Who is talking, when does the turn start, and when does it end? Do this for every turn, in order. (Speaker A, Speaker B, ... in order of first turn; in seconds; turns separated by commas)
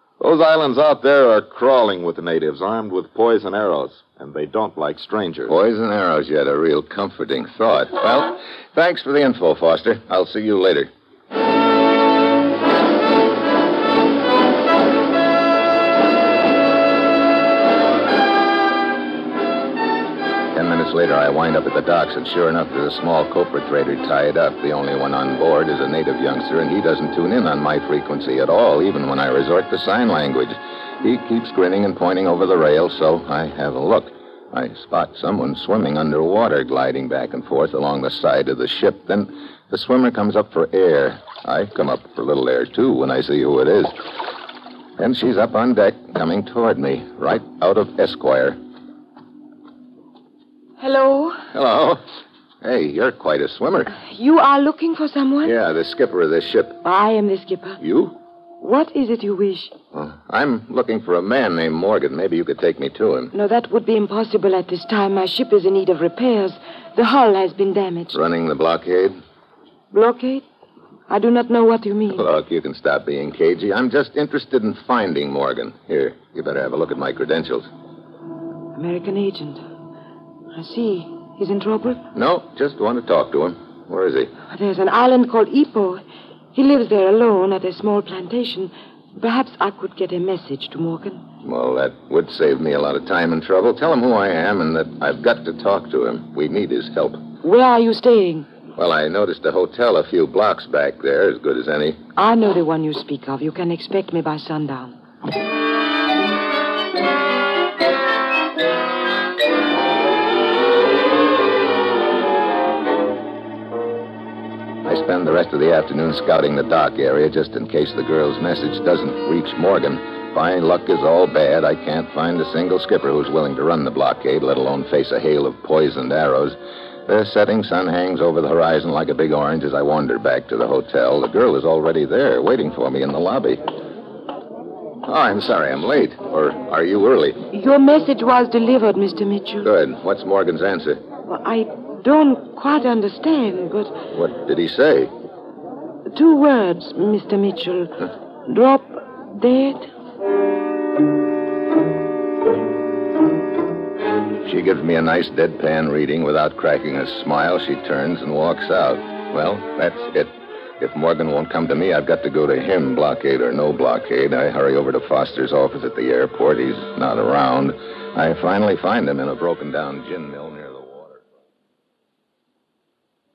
Speaker A: 0.2-5.5, Speaker B: 5.5-10.9, Speaker B: 20.5-44.0, Speaker B: 45.0-48.6, Speaker C: 50.8-51.5, Speaker B: 51.5-52.0, Speaker B: 52.6-53.9, Speaker C: 53.9-55.5, Speaker B: 55.4-56.8, Speaker C: 56.8-57.8, Speaker B: 57.8-58.1, Speaker C: 58.6-59.7, Speaker B: 59.9-63.3, Speaker C: 63.3-68.2, Speaker B: 68.1-69.2, Speaker C: 69.9-70.4, Speaker C: 71.1-72.2, Speaker B: 72.1-77.7, Speaker C: 78.8-79.6, Speaker C: 80.5-82.0, Speaker B: 82.1-84.3, Speaker C: 84.5-86.0, Speaker C: 86.5-91.2, Speaker B: 91.4-97.2, Speaker C: 97.4-98.5, Speaker B: 98.8-102.0, Speaker C: 102.2-105.0, Speaker B: 114.8-133.6, Speaker B: 135.0-137.4, Speaker C: 137.5-139.7, Speaker B: 139.6-141.0, Speaker C: 141.3-143.9, Speaker B: 144.1-145.1, Speaker C: 146.1-147.9, Speaker C: 148.5-149.9, Speaker B: 154.4-171.2